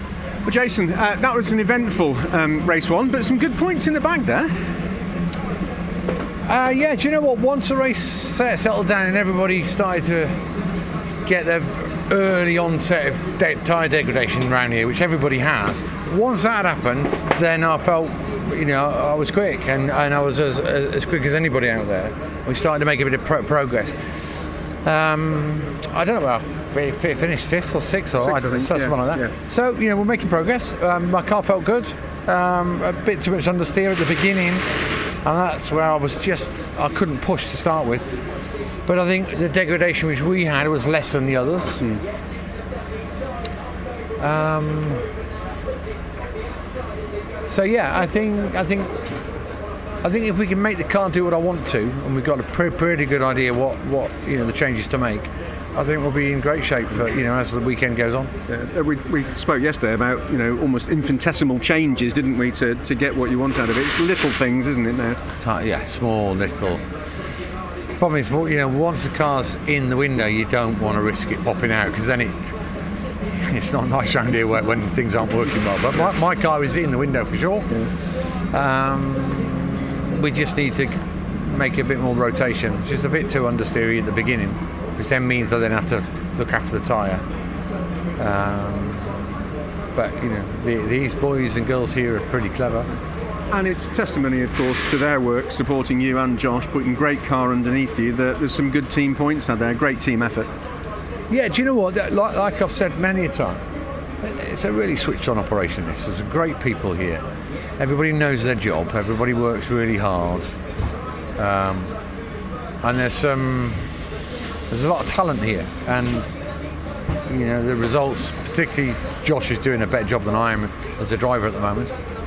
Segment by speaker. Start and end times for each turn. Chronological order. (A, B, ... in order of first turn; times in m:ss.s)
0:00.4-0:04.5 A
0:06.4-0:10.3 B
0:11.2-0:24.0 B
0:24.8-0:34.6 B
0:28.2-0:29.3 A
0:35.2-0:38.0 B
0:38.8-0:41.8 B
0:44.2-0:45.0 B
0:47.5-0:48.9 B
0:50.0-0:58.3 B
0:58.5-1:05.2 A
1:05.4-1:06.8 B
1:08.0-1:12.3 B
1:13.4-1:17.9 B
1:18.5-1:27.2 B
1:28.2-1:29.1 B
1:29.9-1:32.9 B
1:33.5-1:40.5 A
1:41.3-1:43.6 B
1:44.2-1:47.2 B
1:47.8-1:50.5 B
1:51.4-1:51.9 B
1:52.8-1:53.8 B
1:54.7-1:56.4 B
1:57.2-2:01.9 B